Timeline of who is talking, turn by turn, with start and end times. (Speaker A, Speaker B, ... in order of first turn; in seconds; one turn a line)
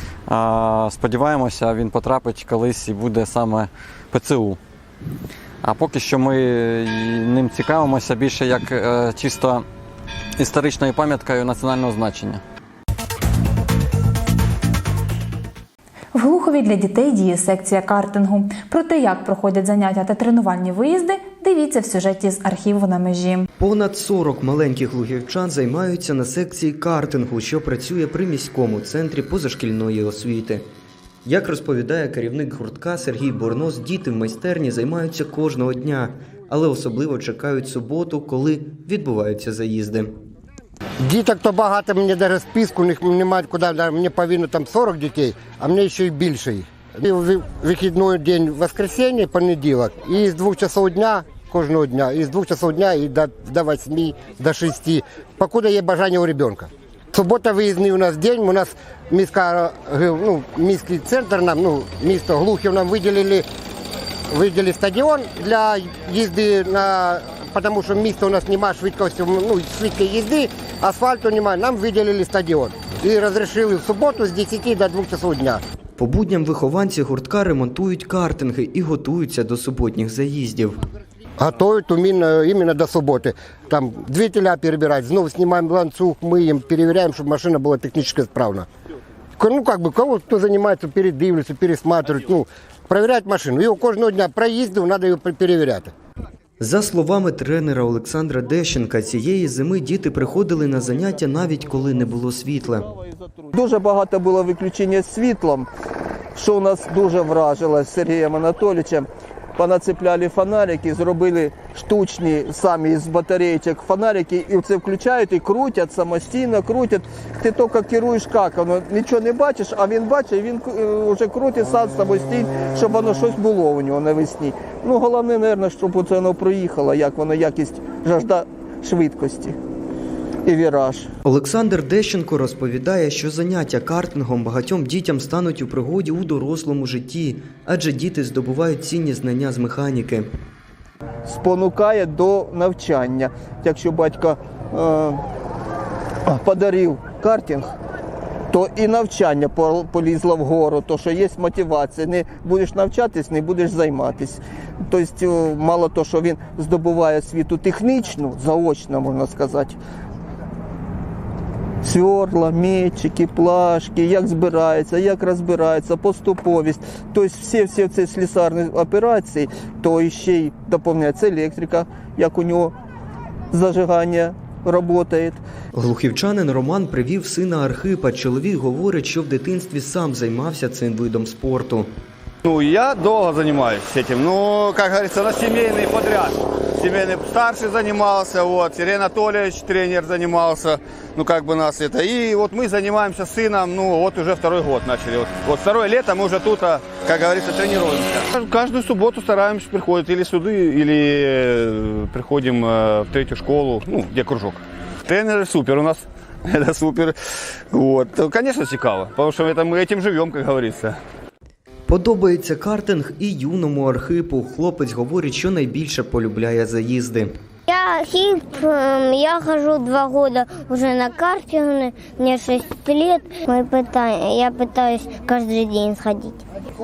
Speaker A: 0.3-4.6
Speaker A: 5.6-9.6
Speaker A: 10.4-12.4
Speaker B: 16.1-23.5
Speaker C: 23.6-30.6
Speaker C: 31.2-40.1
Speaker D: 41.0-63.5
Speaker D: 64.3-75.6
Speaker C: 76.0-80.8
Speaker D: 81.4-88.7
Speaker D: 89.4-95.9
Speaker C: 96.6-102.9
Speaker E: 101.0-105.7
Speaker E: 106.3-129.6
Speaker E: 130.4-131.1
Speaker C: 131.2-140.3
Speaker E: 141.2-145.2
Speaker E: 146.3-147.7
Speaker E: 148.5-159.8
Speaker E: 161.8-172.7
Speaker E: 173.5-175.4
Speaker C: 175.7-181.9
Speaker F: 182.4-207.1
Speaker F: 207.7-211.0
Speaker C: 211.9-217.3
Speaker G: 217.7-226.4